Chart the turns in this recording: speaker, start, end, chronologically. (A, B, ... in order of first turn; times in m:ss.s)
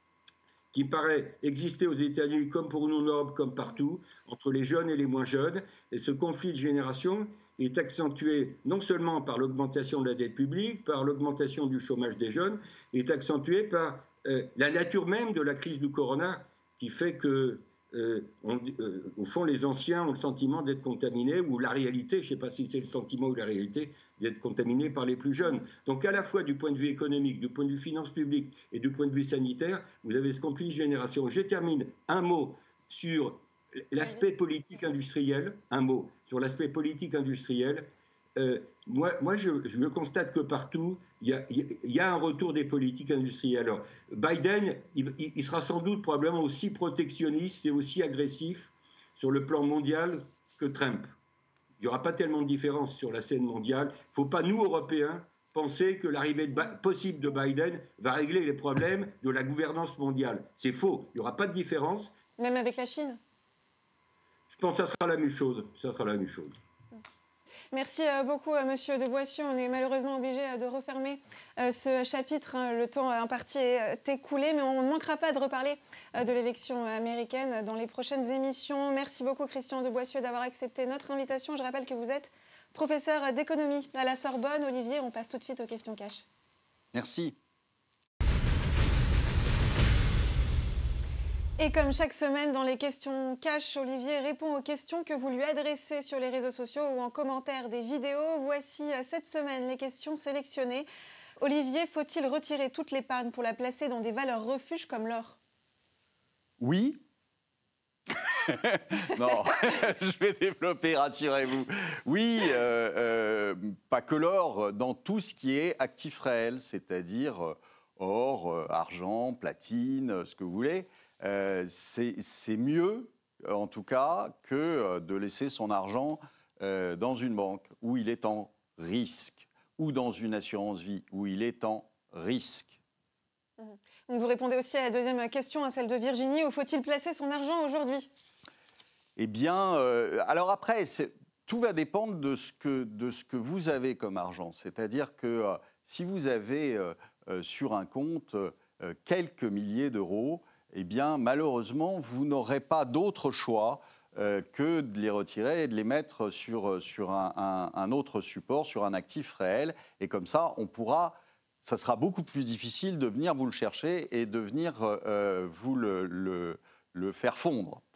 0:00.7-0:51.1 A
0:51.8-1:02.1 A
1:02.4-1:03.2 B
1:04.5-1:06.5 A
1:07.7-1:26.2 B
1:26.9-1:27.4 C
1:31.6-1:40.8 B
1:41.4-1:45.4 B
1:46.6-1:47.0 C
1:48.1-2:12.8 C
2:13.6-2:18.1 B
2:19.2-2:47.8 C